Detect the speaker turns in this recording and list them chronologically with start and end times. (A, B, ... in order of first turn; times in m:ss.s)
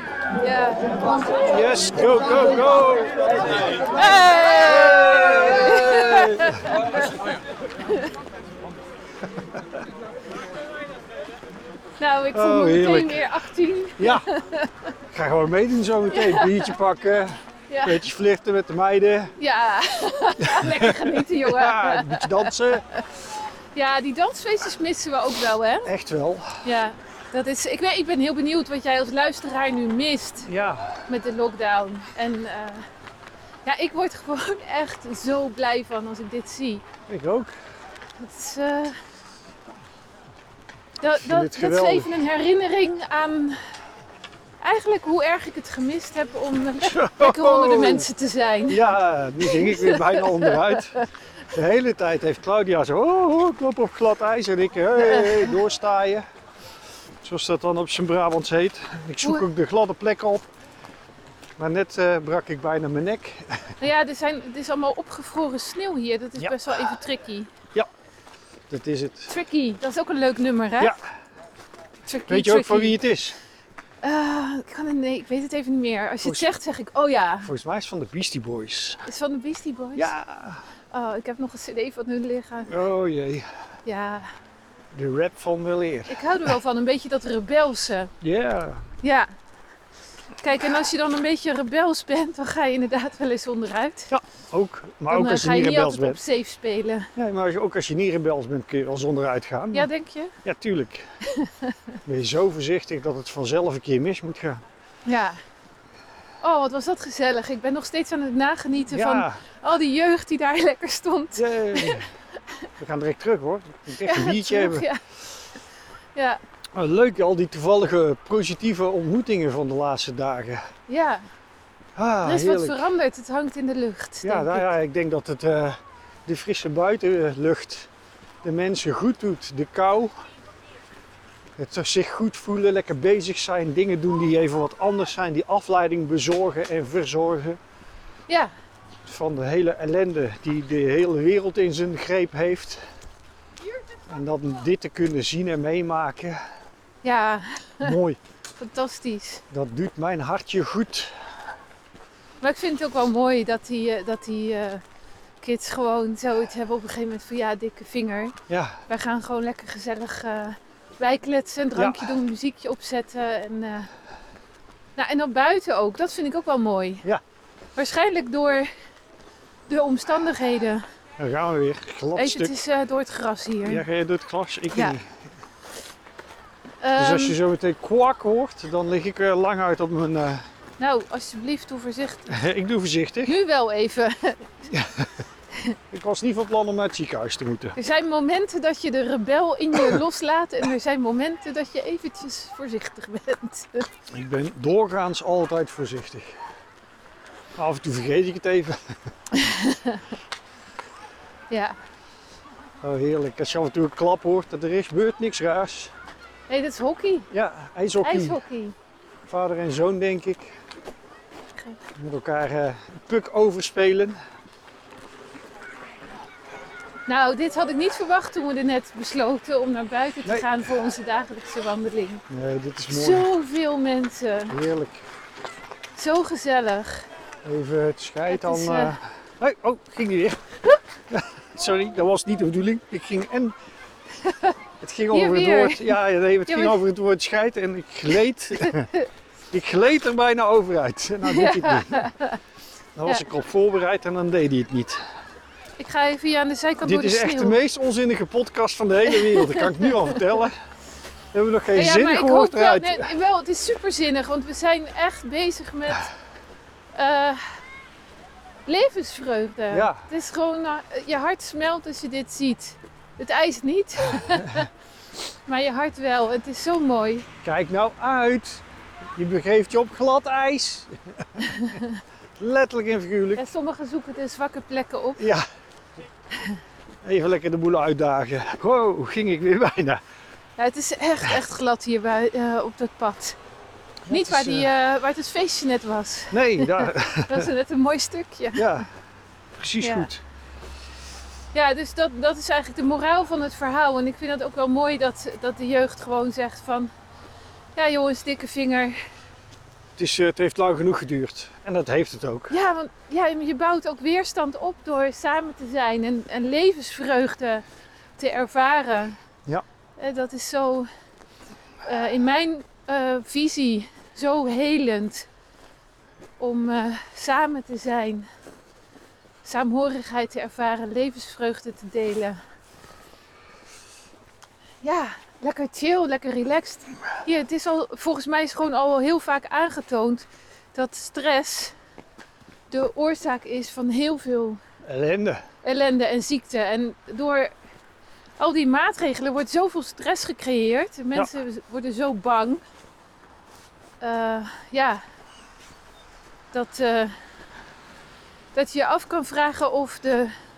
0:00.4-0:01.3 A
0:01.4-0:03.6 B
0:03.9-0:07.0 A
0:04.6-0:06.7 B
0:07.8-0:08.1 A
0:09.4-0:09.8 B
0:12.0-0:14.9 A
0:12.3-0:13.3 B
0:14.0-0:14.3 B
0:15.1-0:17.3 B
0:16.1-0:16.7 A
0:17.7-0:18.0 A
0:17.8-0:19.3 B
0:19.4-0:23.0 A
0:20.5-0:22.8 B
0:23.7-0:25.9 A
0:25.8-0:26.7 B
0:26.6-0:30.5 A
0:30.4-0:31.1 B
0:31.1-0:32.8 A
0:33.6-0:36.8 A
0:37.1-0:37.5 B
0:38.2-0:39.0 A
0:41.0-0:43.7 A
0:41.2-0:42.1 B
0:44.6-0:48.8 A
0:46.8-0:48.1 B
0:48.7-0:56.2 B
0:49.4-0:51.1 A
0:55.0-0:55.6 A
0:57.2-1:00.5 B
1:01.6-1:03.8 B
1:03.8-1:07.5 A
1:06.4-1:06.9 B
1:08.7-1:09.3 B
1:09.3-1:10.9 A
1:12.0-1:13.0 A
1:12.3-1:13.4 B
1:14.0-1:17.5 A
1:16.2-1:16.5 B
1:17.4-1:19.0 B
1:19.0-1:20.1 A
1:20.0-1:20.6 B
1:20.9-1:22.7 A
1:22.7-1:23.5 B
1:23.8-1:24.3 A
1:24.9-1:26.5 B
1:26.1-1:28.1 A
1:28.2-1:28.8 B
1:29.0-1:29.3 A
1:30.4-1:34.1 A
1:34.1-1:36.2 B
1:35.1-1:37.1 A
1:37.2-1:39.9 B
1:39.7-1:40.3 A
1:40.4-1:41.0 B
1:41.2-1:42.0 A
1:42.0-1:44.6 B
1:45.0-1:45.4 A
1:46.4-1:52.0 A
1:48.9-1:49.4 B
1:51.4-1:52.1 B
1:52.8-1:54.9 B
1:53.9-1:55.0 A
1:56.1-1:56.4 A
1:56.7-2:00.6 B
2:00.9-2:01.2 A
2:02.0-2:02.9 B
2:02.2-2:04.7 A
2:04.2-2:07.9 B
2:08.4-2:10.1 B
2:11.6-2:17.6 B
2:18.3-2:18.5 A
2:19.0-2:22.8 B
2:24.1-2:26.4 B
2:27.0-2:28.0 A
2:27.8-2:28.2 B
2:28.6-2:29.4 A
2:29.5-2:31.1 B
2:32.4-2:34.8 A
2:35.4-2:38.4 A
2:38.5-2:38.8 B
2:38.9-2:43.9 A
2:41.7-2:42.2 B
2:45.0-2:47.0 A
2:47.8-2:48.7 A
2:49.7-2:50.8 A
2:51.2-2:52.5 B
2:52.2-2:53.8 A
2:53.6-2:55.2 B
2:56.8-2:57.4 A
2:57.0-3:00.4 B
3:00.8-3:02.4 A
3:02.3-3:03.3 B
3:03.2-3:04.7 A
3:04.7-3:05.1 B
3:05.9-3:07.8 B
3:07.8-3:13.9 A
3:14.1-3:16.3 B
3:17.6-3:18.9 B
3:19.3-3:20.1 A
3:21.5-3:21.8 A
3:22.8-3:25.9 B
3:26.5-3:27.3 A
3:27.3-3:28.4 B
3:28.0-3:28.8 A
3:29.3-3:30.6 B
3:32.0-3:34.2 B
3:37.1-3:42.2 A
3:42.3-3:43.3 B
3:42.9-3:44.5 A
3:44.5-3:45.0 B
3:45.9-3:47.1 A
3:47.4-3:50.4 B
3:48.3-3:49.0 A
3:51.1-3:53.6 B
3:54.2-3:54.5 A
3:54.8-3:58.9 B
3:55.1-3:55.9 A
3:56.5-3:56.8 A
3:58.6-3:59.0 A
3:59.5-4:02.1 B
4:01.2-4:02.4 A
4:03.0-4:05.0 B
4:05.8-4:07.6 A
4:06.8-4:10.6 B
4:09.1-4:10.2 A
4:11.3-4:13.1 B
4:11.7-4:16.1 A
4:16.9-4:17.6 A
4:18.6-4:24.7 A
4:19.7-4:20.0 B
4:24.2-4:24.6 B
4:25.2-4:27.3 A
4:27.4-4:28.6 B
4:29.2-4:31.6 B
4:31.4-4:32.0 A
4:32.4-4:33.4 B
4:33.4-4:35.2 A
4:35.2-4:35.4 B
4:37.0-4:40.0 B
4:40.6-4:43.4 A
4:44.0-4:44.7 B
4:44.1-4:48.7 A
4:46.3-4:47.5 B
4:48.6-4:48.9 B
4:49.6-4:50.2 B
4:49.8-4:50.1 A
4:51.5-4:56.9 A
4:57.7-4:59.0 A
5:00.0-5:02.5 B
5:02.5-5:07.6 A
5:08.2-5:09.2 A
5:10.0-5:10.9 A
5:11.8-5:15.3 A
5:16.4-5:18.3 A
5:19.4-5:22.4 A
5:24.8-5:31.7 A
5:32.7-5:34.6 A
5:34.8-5:35.4 B
5:35.6-5:37.5 A
5:38.4-5:42.6 A
5:44.0-5:45.0 A
5:46.5-5:47.2 A
5:48.5-5:50.3 A